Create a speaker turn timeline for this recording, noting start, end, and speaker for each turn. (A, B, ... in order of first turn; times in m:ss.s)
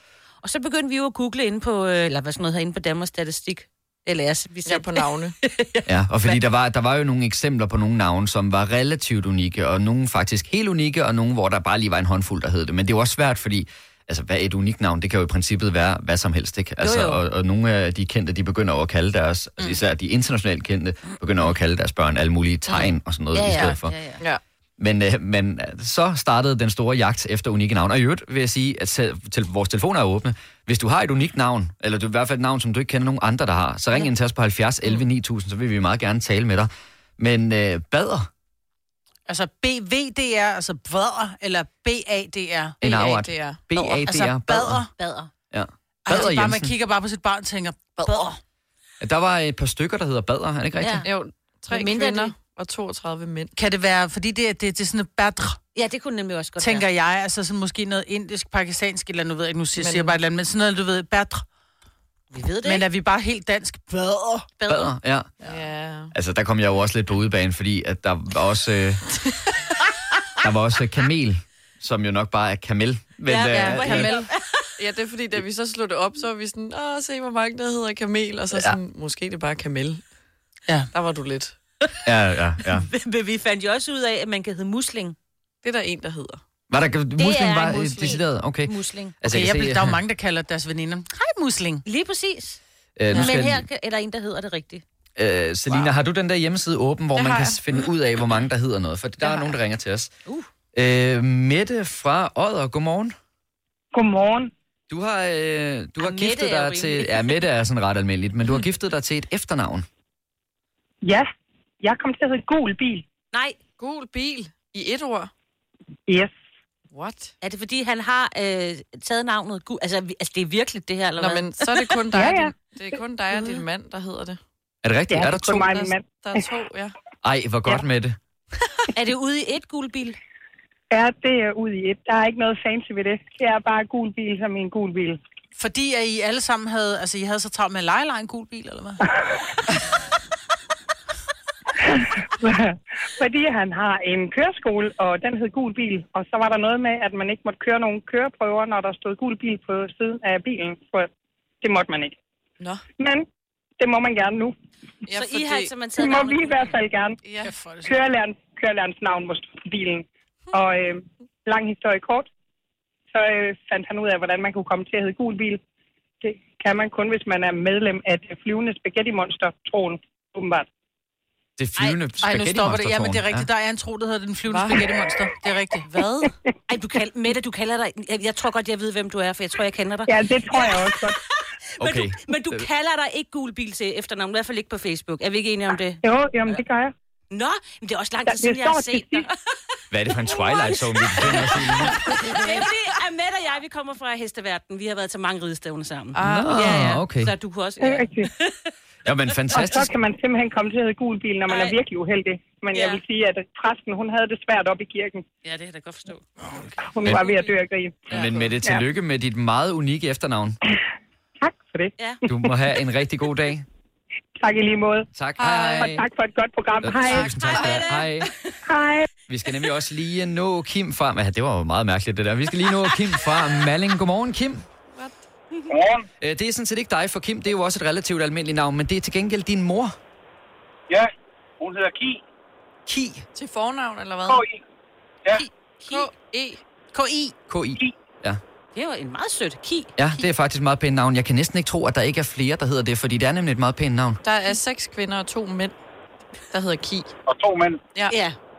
0:00.4-0:06.4 A
0:04.6-0:05.4 B
0:05.9-0:24.0 C
0:16.8-0:17.2 A
0:23.3-0:24.2 A
0:24.8-0:38.3 C
0:39.3-0:42.8 D
0:42.8-0:44.9 C
0:42.8-0:43.6 B
0:43.8-0:44.9 D
0:45.0-0:45.3 A
0:45.5-0:46.7 C
0:46.1-0:48.3 D
0:48.0-0:48.4 A
0:49.0-0:51.1 C
0:50.8-0:51.1 A
0:51.0-0:53.5 B
0:51.7-0:52.4 A
0:53.6-0:55.6 D
0:55.8-0:56.9 A
0:56.6-1:01.4 D
0:59.8-1:00.2 B
1:02.3-1:02.8 A
1:02.6-1:04.5 D
1:04.6-1:04.9 A
1:04.7-1:05.3 C
1:05.4-1:06.1 B
1:06.1-1:09.0 C
1:10.4-1:14.2 C
1:13.3-1:14.3 A
1:13.5-1:20.0 B
1:13.5-1:14.1 D
1:20.9-1:21.6 B
1:22.0-1:22.9 C
1:22.7-1:25.2 A
1:25.6-1:26.4 B
1:26.7-1:30.0 C
1:27.2-1:29.2 A
1:29.2-1:31.8 D
1:31.9-1:32.6 A
1:33.0-1:33.6 C
1:33.1-1:34.8 A
1:35.2-1:40.1 C
1:37.2-1:37.6 B
1:39.2-1:39.6 A
1:40.7-1:43.2 C
1:43.9-1:44.5 E
1:44.9-1:49.9 C
1:46.0-1:47.4 A
1:51.0-1:51.3 E
1:51.8-1:53.1 E
1:53.3-1:53.6 A
1:53.8-1:55.3 B
1:56.9-1:57.3 B
1:57.4-2:02.0 A
2:01.2-2:04.4 B
2:02.1-2:02.6 E
2:04.8-2:05.7 C
2:05.1-2:06.2 E
2:05.5-2:07.0 B
2:07.2-2:08.2 C
2:08.9-2:10.2 A
2:10.9-2:15.2 E
2:15.6-2:19.0 D
2:21.8-2:31.1 E
2:31.6-2:32.1 E
2:33.0-2:33.2 E
2:33.8-2:34.5 E
2:35.1-2:35.8 B
2:35.1-2:36.8 A
2:36.0-2:37.2 E
2:37.2-2:37.5 B
2:37.4-2:37.9 D
2:37.8-2:42.3 E
2:43.1-2:45.6 E
2:46.2-2:50.7 E
2:51.6-2:53.5 C
2:52.2-2:55.9 D
2:54.5-2:55.0 B
2:55.9-2:56.3 B
2:56.7-3:01.2 A
3:00.1-3:01.2 E
3:01.8-3:06.6 A
3:01.8-3:02.6 C
3:06.0-3:06.9 E
3:07.3-3:09.4 A
3:08.3-3:09.3 E
3:09.9-3:12.0 C
3:10.3-3:18.7 A
3:16.1-3:16.9 B
3:16.2-3:17.3 C
3:17.8-3:18.3 E
3:19.0-3:19.9 C
3:19.5-3:25.2 E
3:21.5-3:21.8 A
3:22.7-3:23.0 A
3:25.4-3:26.2 A
3:26.8-3:28.8 E
3:27.1-3:27.6 A
3:28.1-3:28.5 B
3:28.1-3:30.6 C
3:31.4-3:31.9 E
3:32.3-3:33.7 C
3:34.4-3:37.3 E
3:35.2-3:36.1 C
3:36.8-3:38.3 C
3:37.2-3:38.3 A
3:38.7-3:39.1 E
3:39.3-3:44.7 C
3:45.7-3:46.1 F
3:46.2-3:50.0 C
3:50.9-3:52.2 F
3:52.9-3:53.2 C
3:53.4-3:54.4 B
3:54.3-3:54.6 F
3:55.4-3:56.6 B
3:56.9-3:57.4 D
3:57.5-3:58.4 C
3:58.8-3:59.9 A
4:00.0-4:04.2 C
4:04.2-4:05.8 B
4:06.5-4:07.1 B
4:07.3-4:07.8 F
4:08.1-4:08.4 A